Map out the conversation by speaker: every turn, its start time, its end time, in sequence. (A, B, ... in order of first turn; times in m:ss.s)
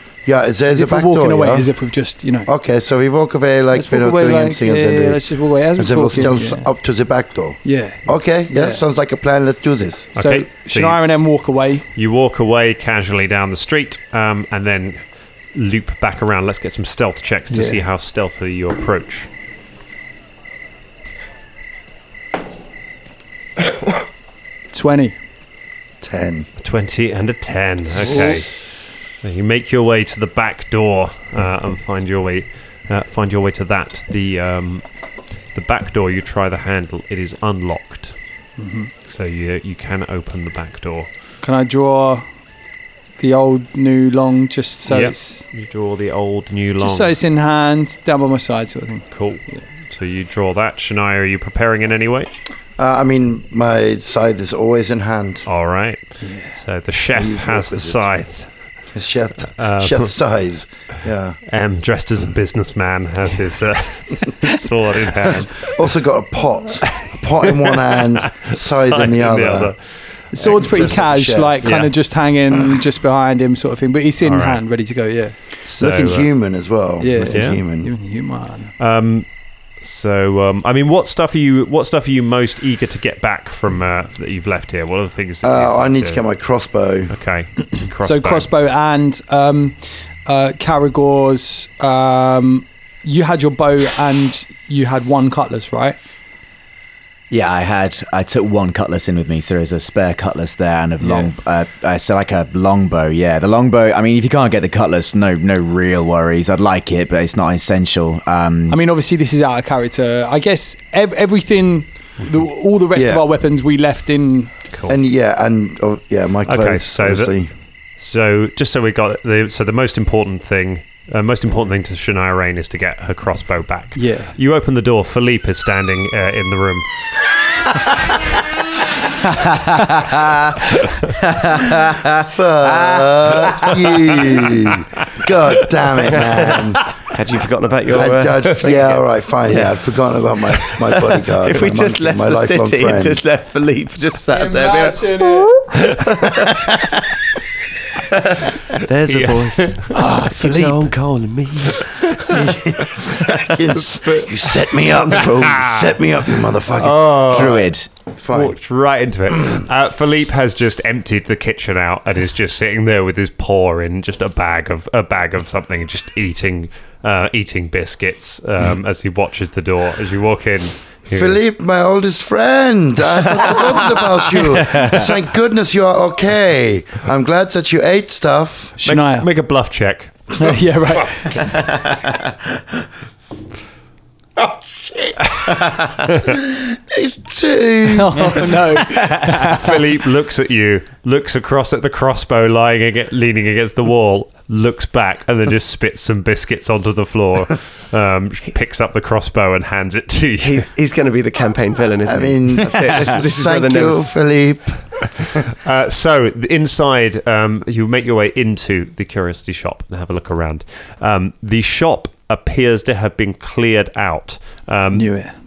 0:00.2-0:01.7 A
0:00.7-0:02.5 B
0:02.5-0:10.1 A
0:03.7-0:06.7 B
0:07.6-0:08.8 B
0:10.1-0:11.0 C
0:10.1-0:11.9 B
0:12.0-0:15.0 C
0:15.5-0:19.3 C
0:17.5-0:17.8 B
0:24.7-0:25.1 B
0:26.0-0:26.5 A
0:26.6-0:28.7 C
0:29.2-0:34.8 C
0:35.5-0:38.1 C
0:38.6-0:38.9 B
0:39.1-0:41.1 C
0:41.4-0:42.2 B
0:43.2-0:45.4 B
0:44.9-0:47.2 C
0:46.8-0:49.6 B
0:49.1-0:52.3 C
0:52.8-0:55.4 A
0:55.5-0:58.5 C
0:56.2-0:56.6 B
0:57.1-0:58.0 A
0:58.9-1:01.4 A
0:59.5-1:00.1 C
1:01.5-1:06.0 C
1:05.7-1:09.7 A
1:06.9-1:09.8 C
1:10.3-1:15.4 B
1:10.3-1:11.7 A
1:11.6-1:11.9 C
1:14.2-1:14.6 C
1:15.6-1:16.3 C
1:15.8-1:17.9 A
1:17.0-1:18.7 B
1:17.3-1:17.6 C
1:18.8-1:26.2 C
1:25.4-1:27.2 A
1:27.1-1:28.5 C
1:28.0-1:36.0 B
1:37.3-1:48.8 D
1:41.0-1:41.3 B
1:48.7-1:54.5 B
1:53.0-1:53.2 A
1:54.9-1:57.5 A
1:56.5-1:57.3 C
1:58.0-2:06.9 C
2:04.0-2:04.3 B
2:09.5-2:10.6 D
2:11.2-2:13.7 D
2:12.2-2:16.8 A
2:16.1-2:19.8 E
2:17.9-2:23.2 A
2:20.9-2:25.2 E
2:24.3-2:25.5 B
2:25.9-2:26.3 E
2:28.1-2:32.1 E
2:29.1-2:30.0 C
2:29.9-2:30.8 B
2:32.3-2:38.6 A
2:33.8-2:34.2 C
2:35.0-2:36.0 C
2:36.8-2:37.6 C
2:36.8-2:37.9 D
2:38.3-2:51.4 C
2:51.1-2:58.8 A
2:58.8-2:59.3 B
2:58.8-3:00.3 C
3:00.4-3:01.4 B
3:04.4-3:08.6 A
3:07.9-3:09.7 B
3:09.5-3:20.7 C
3:20.4-3:24.0 E
3:22.0-3:25.2 A
3:25.6-3:35.2 C
3:34.9-3:35.3 B